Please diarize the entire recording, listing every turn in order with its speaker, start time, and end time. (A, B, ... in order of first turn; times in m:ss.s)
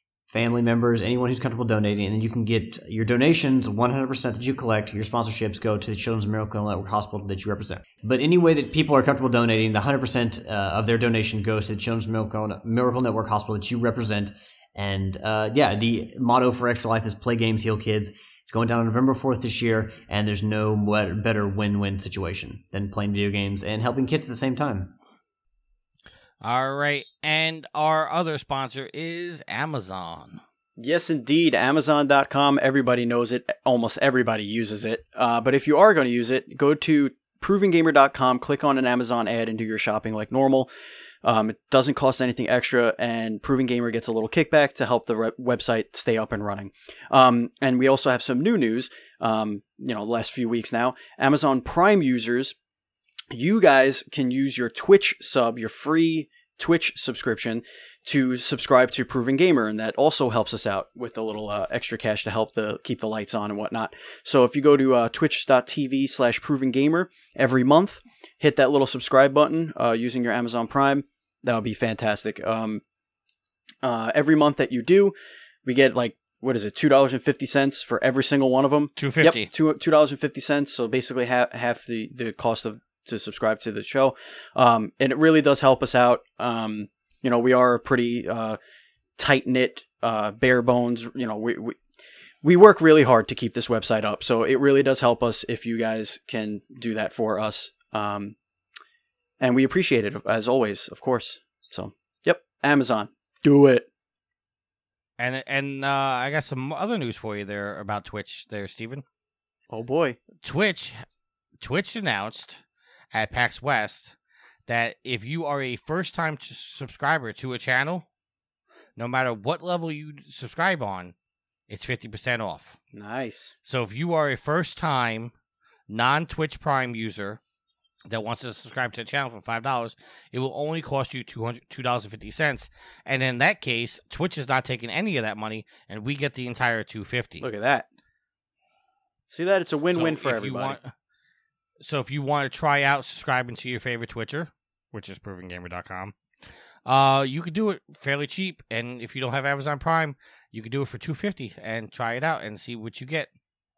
0:00.3-0:25.0 A
0:26.4-0:30.4 B
0:30.8-0:40.7 C
0:41.2-0:52.6 C
0:53.3-1:12.8 C
1:13.8-1:28.6 C
1:19.0-1:19.5 B
1:29.2-1:31.8 C
1:32.4-1:38.4 C
1:39.4-1:43.9 C
1:45.2-1:49.0 B
1:49.7-1:50.2 C
1:50.4-1:51.0 B
1:51.6-1:54.2 B
1:54.7-1:58.1 B
1:59.0-2:01.1 B
2:01.7-2:02.8 B
2:02.9-2:03.5 C
2:03.6-2:05.3 B
2:05.9-2:07.4 B
2:08.1-2:17.5 B
2:17.4-2:17.9 C
2:19.3-2:20.8 C
2:19.9-2:20.9 B
2:21.8-2:26.2 B
2:26.9-2:33.3 B